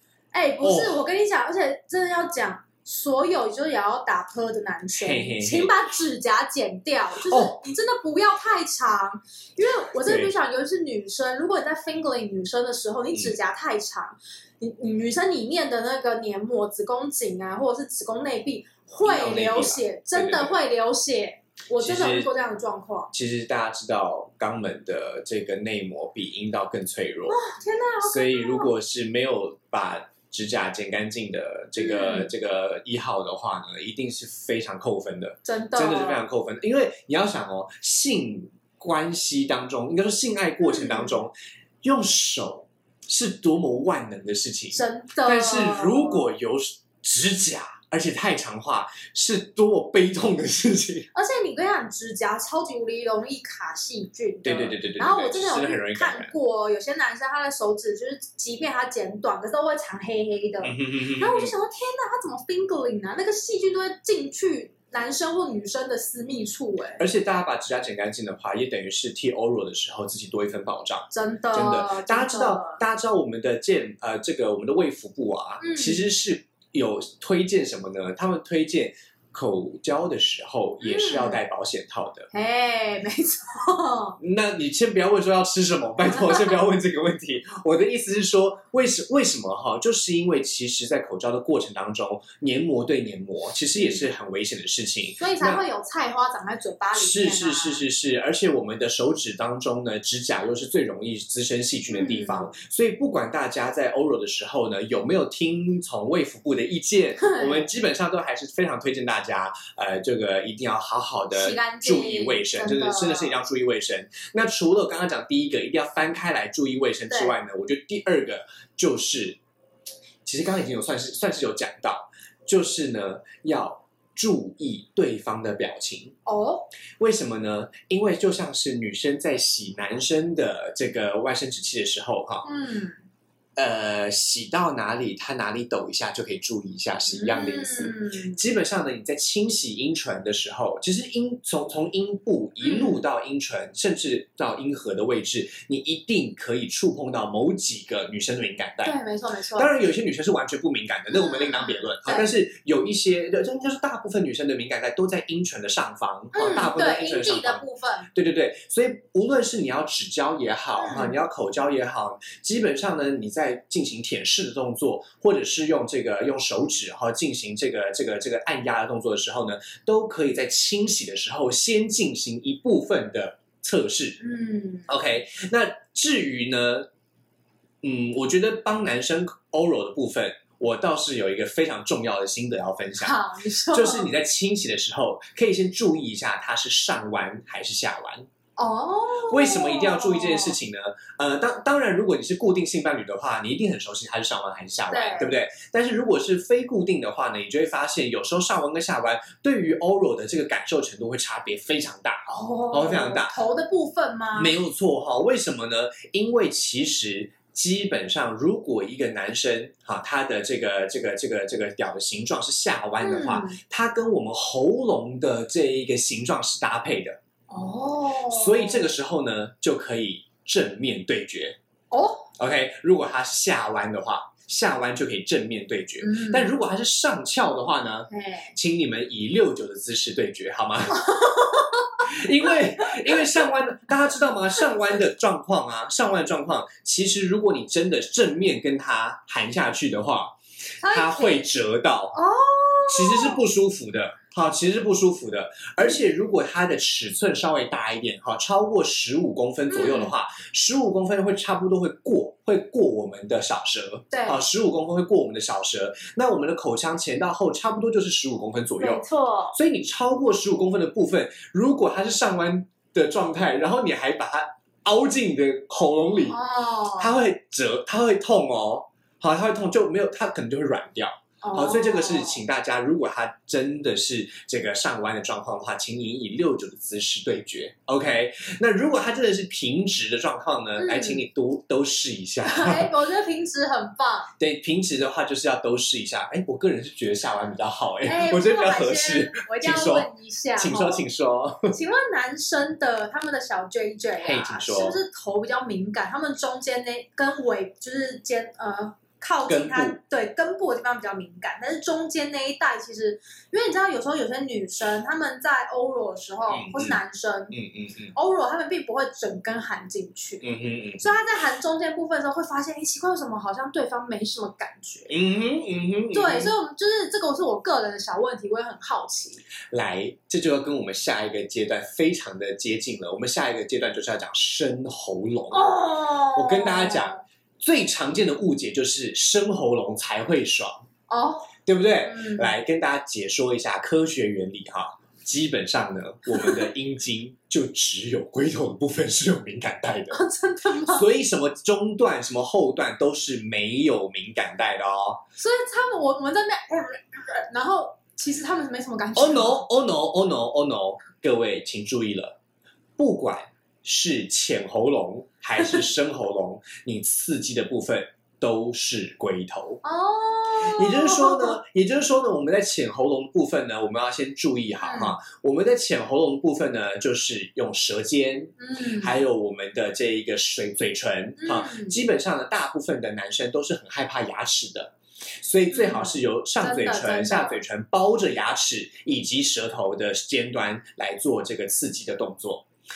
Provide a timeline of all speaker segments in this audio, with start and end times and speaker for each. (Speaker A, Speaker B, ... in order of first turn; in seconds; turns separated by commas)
Speaker A: 0.3-23.1, Speaker B: 0.6-1.0, Speaker B: 4.9-5.7, Speaker B: 7.2-7.6, Speaker B: 10.0-10.3, Speaker B: 19.0-20.5, Speaker B: 21.8-22.3, Speaker B: 23.1-27.4, Speaker A: 27.3-28.7, Speaker B: 28.0-51.1, Speaker A: 31.8-32.3, Speaker A: 35.4-36.2, Speaker A: 40.6-41.2, Speaker A: 44.7-46.3, Speaker A: 51.1-67.0, Speaker B: 54.4-56.3, Speaker B: 60.6-61.5, Speaker B: 67.0-82.3, Speaker A: 71.1-72.8, Speaker A: 75.6-76.0, Speaker A: 80.8-81.4, Speaker A: 82.3-84.2, Speaker B: 84.2-95.6, Speaker A: 86.2-86.5, Speaker A: 93.8-94.0, Speaker A: 95.2-97.8, Speaker B: 96.9-119.4, Speaker A: 101.9-102.5, Speaker A: 107.2-107.7, Speaker A: 111.3-113.3, Speaker A: 117.1-117.3, Speaker B: 120.2-126.2, Speaker A: 126.2-126.7, Speaker B: 127.0-132.5, Speaker A: 132.4-132.9, Speaker B: 133.6-148.9, Speaker A: 137.1-138.4, Speaker A: 142.6-143.0, Speaker A: 148.8-149.7, Speaker B: 149.6-174.2, Speaker A: 151.1-152.3, Speaker A: 156.3-158.1, Speaker A: 160.8-161.2, Speaker A: 174.2-174.9, Speaker B: 174.9-176.9, Speaker B: 177.8-183.2, Speaker A: 183.0-184.1, Speaker B: 183.7-188.3, Speaker A: 188.6-190.6, Speaker B: 189.3-203.4, Speaker A: 194.9-195.3, Speaker A: 202.3-204.6, Speaker B: 204.3-217.2, Speaker A: 213.0-213.6, Speaker A: 217.5-218.9, Speaker B: 218.3-221.6, Speaker A: 221.9-222.3, Speaker B: 222.4-231.1, Speaker A: 226.0-226.6, Speaker A: 228.1-228.5, Speaker A: 231.0-233.5, Speaker B: 232.0-240.3, Speaker A: 240.8-241.5, Speaker B: 240.9-242.2, Speaker A: 242.1-243.4, Speaker B: 242.9-266.4, Speaker A: 249.7-250.1, Speaker A: 254.1-254.4, Speaker A: 258.8-259.6, Speaker A: 266.2-267.2, Speaker B: 267.0-282.9, Speaker A: 271.4-272.4, Speaker A: 280.8-281.2, Speaker A: 282.4-284.3, Speaker B: 284.4-291.7, Speaker A: 288.0-291.0, Speaker A: 291.7-307.6, Speaker B: 294.2-295.0, Speaker B: 299.4-300.0, Speaker B: 306.5-307.0, Speaker B: 307.5-308.1, Speaker A: 308.1-310.4, Speaker B: 310.4-311.1, Speaker A: 311.0-315.1, Speaker B: 315.1-316.5, Speaker A: 316.1-319.4, Speaker B: 319.7-325.7, Speaker A: 325.5-327.2, Speaker B: 326.3-330.9, Speaker A: 331.1-331.5, Speaker B: 331.6-340.2, Speaker A: 332.0-332.5, Speaker A: 336.4-336.7, Speaker A: 340.1-341.1, Speaker B: 340.8-345.2, Speaker A: 345.4-349.6, Speaker B: 349.1-352.4, Speaker B: 353.0-359.8, Speaker A: 359.8-361.6, Speaker B: 360.6-382.6, Speaker A: 364.8-365.2, Speaker A: 368.6-369.2, Speaker A: 371.4-372.0, Speaker A: 375.7-377.6